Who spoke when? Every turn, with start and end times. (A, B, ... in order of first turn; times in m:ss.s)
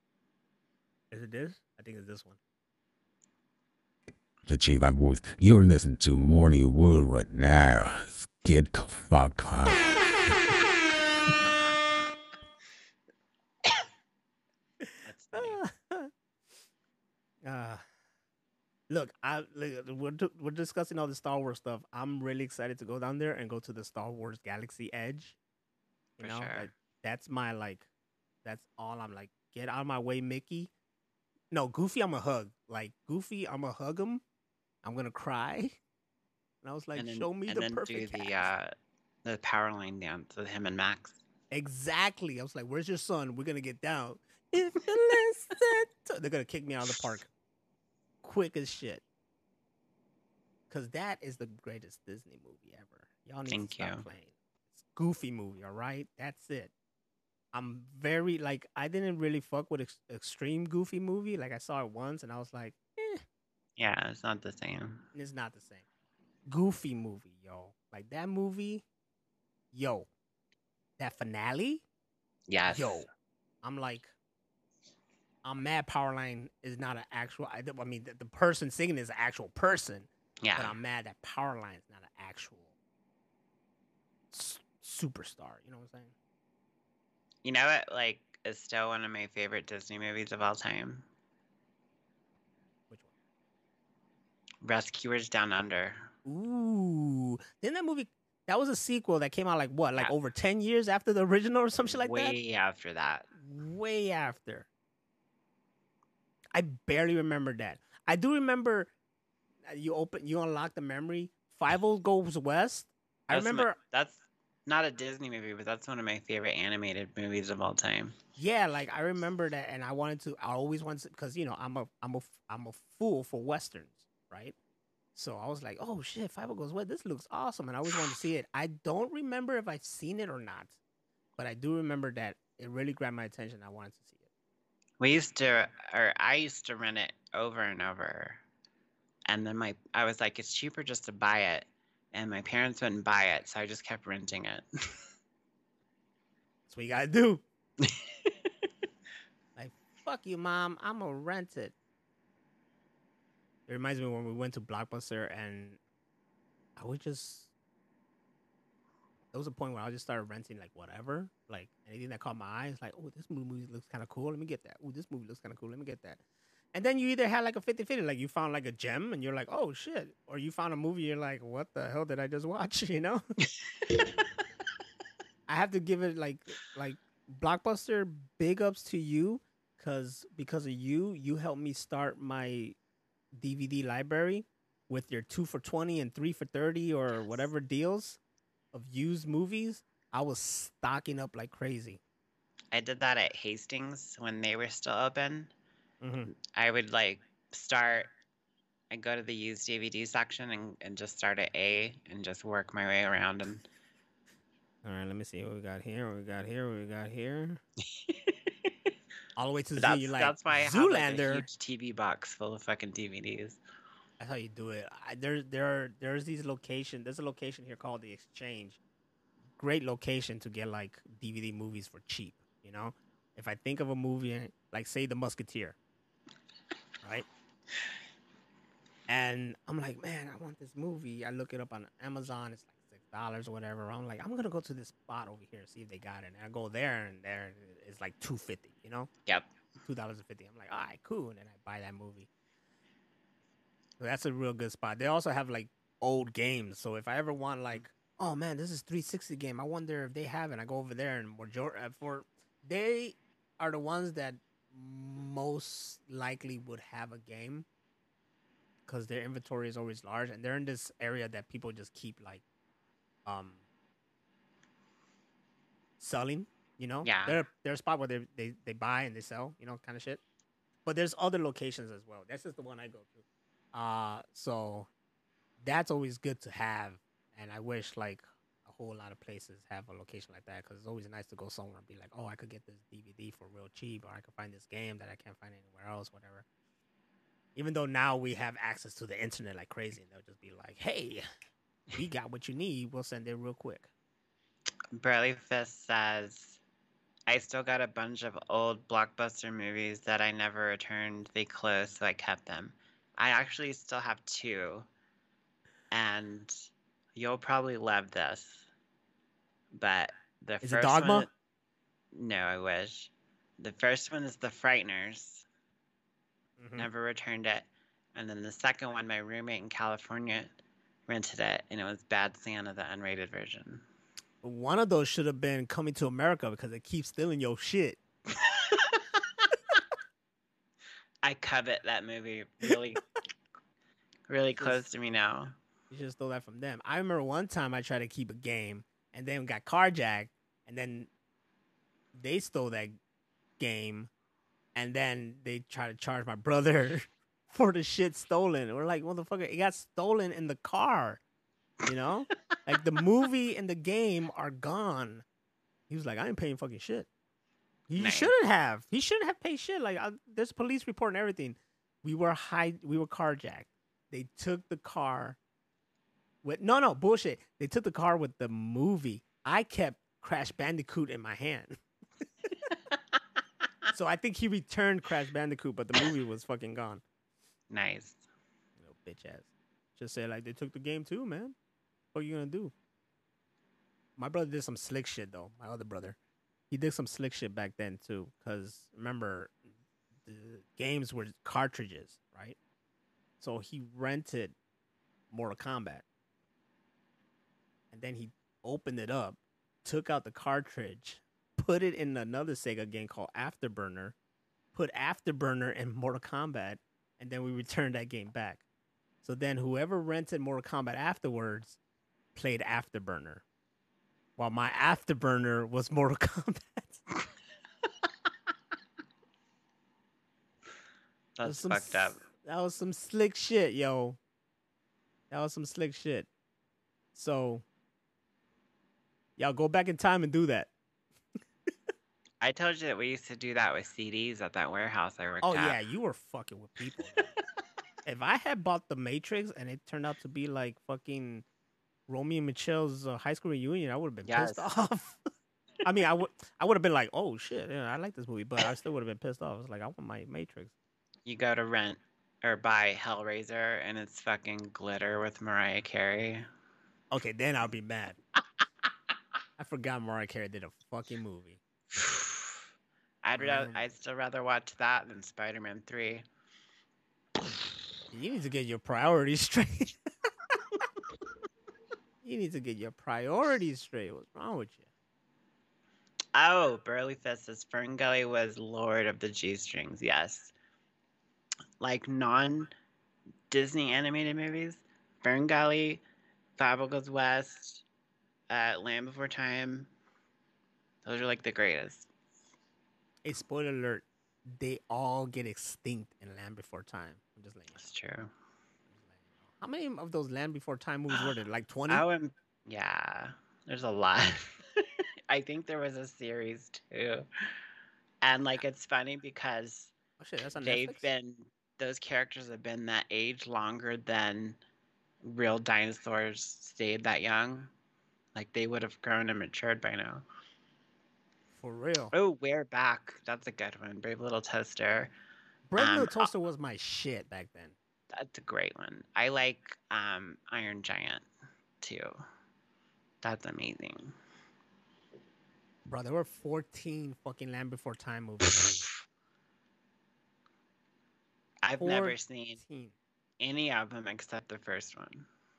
0:01.1-0:02.4 A
0:04.4-0:09.9 B
0:14.8-0:16.1 A
0:15.0-0:15.6 C
0:17.4-0:17.8 A
0:18.9-0:25.4 A
0:26.2-0:27.8 A
0:26.2-0:26.7 C
0:28.4-0:30.7 A
0:31.5-0:34.2 A
0:34.8-0:35.8 A
0:36.6-0:38.5 A
0:37.0-0:38.7 C
0:39.2-0:41.2 C
0:41.5-0:47.3 A
0:48.2-0:49.0 A
0:50.7-0:56.7 A
0:53.5-0:54.0 C
0:57.5-1:03.2 A
1:03.8-1:05.0 C
1:05.1-1:05.8 A
1:06.4-1:08.8 A
1:09.7-1:10.1 A
1:11.0-1:11.8 A
1:12.5-1:13.1 C
1:12.7-1:13.1 A
1:13.6-1:14.1 A
1:15.4-1:22.7 A
1:20.4-1:20.7 C
1:24.3-1:26.1 A
1:27.4-1:31.0 C
1:34.6-1:36.1 C
1:36.2-1:42.3 A
1:41.8-1:43.3 C
1:43.4-1:44.7 A
1:46.5-1:48.9 A
1:49.6-1:53.8 A
1:53.3-1:58.1 C
1:58.4-2:04.5 A
2:05.1-2:10.8 A
2:11.4-2:14.2 A
2:15.0-2:18.4 C
2:19.3-2:24.6 C
2:26.7-2:27.4 A
2:27.8-2:28.3 C
2:29.6-2:31.7 A
2:33.7-2:35.8 A
2:36.8-2:37.5 A
2:39.3-2:46.2 A
2:46.7-2:53.2 A
2:55.5-3:02.8 A
3:03.3-3:08.2 A
3:08.7-3:12.0 A
3:12.7-3:15.5 C
3:16.0-3:16.3 A
3:16.3-3:18.1 C
3:18.9-3:23.6 C
3:24.8-3:27.6 A
3:28.0-3:28.7 C
3:29.4-3:31.4 A
3:29.8-3:33.6 C
3:34.2-3:38.8 A
3:39.6-3:45.8 A
3:47.0-3:47.3 A
3:49.1-3:59.1 A
3:59.8-4:02.3 A
4:04.0-4:17.6 A
4:18.9-4:22.4 A
4:23.2-4:23.6 A
4:26.0-4:30.2 A
4:27.0-4:27.4 C
4:30.8-4:34.9 A
4:35.6-4:46.4 A
4:47.6-4:51.2 A
4:52.0-4:53.9 A
4:55.0-4:56.6 C
4:57.3-5:04.8 C
5:05.9-5:06.6 C
5:07.2-5:08.7 C
5:09.7-5:11.3 C
5:10.6-5:11.3 A
5:12.1-5:15.4 C
5:16.6-5:16.9 A
5:16.8-5:20.5 C
5:21.1-5:23.8 C
5:24.4-5:28.0 A
5:28.4-5:28.8 C
5:31.2-5:33.0 C
5:34.3-5:35.5 C
5:34.6-5:34.8 A
5:35.9-5:41.1 A
5:42.1-5:43.0 A
5:43.6-5:44.1 A
5:44.7-5:51.2 A
5:51.9-5:55.2 A
5:55.9-5:57.1 A
5:57.9-6:05.4 A
5:58.0-5:58.3 C
6:06.4-6:11.8 A
6:13.9-6:17.0 A
6:17.7-6:18.2 C
6:18.8-6:21.6 A
6:22.1-6:22.7 A
6:24.2-6:26.2 A
6:26.7-6:29.6 A
6:30.2-6:32.6 A
6:33.4-6:34.5 A
6:35.3-6:36.0 A
6:37.9-6:44.1 A
6:44.7-6:48.6 A
6:49.2-6:51.8 A
6:52.3-6:53.4 A
6:54.4-6:57.0 A
7:01.4-7:02.2 C
7:01.4-7:04.2 A
7:05.3-7:06.3 A
7:07.1-7:07.6 A
7:09.4-7:10.7 A
7:12.4-7:15.8 C
7:15.4-7:17.2 A
7:18.0-7:21.4 A
7:22.1-7:25.2 A
7:24.2-7:24.7 C
7:25.8-7:30.7 A
7:31.2-7:36.5 C
7:37.1-7:38.2 A
7:39.6-7:41.6 A
7:41.9-7:42.6 C
7:43.2-7:46.2 C
7:43.4-7:43.8 A
7:48.1-7:50.5 A
7:52.2-7:54.8 A
7:56.3-8:00.5 C
8:01.8-8:02.7 C
8:03.5-8:06.0 C
8:06.6-8:07.8 C
8:08.5-8:09.9 C
8:11.0-8:12.1 C
8:13.2-8:17.8 A
8:17.7-8:18.3 C
8:19.5-8:22.0 A
8:21.9-8:24.6 C
8:25.3-8:27.3 C
8:28.2-8:29.9 C
8:30.2-8:31.0 A
8:30.6-8:34.6 C
8:35.2-8:37.7 C
8:38.3-8:40.2 C
8:41.5-8:42.1 A
8:42.1-8:45.1 C
8:45.7-8:47.7 A
8:45.8-8:46.3 C
8:48.1-8:51.2 C
8:51.8-8:52.2 C
8:53.2-8:54.1 C
8:55.8-8:58.8 A
9:01.6-9:02.6 C
9:01.8-9:02.9 A
9:03.4-9:05.2 C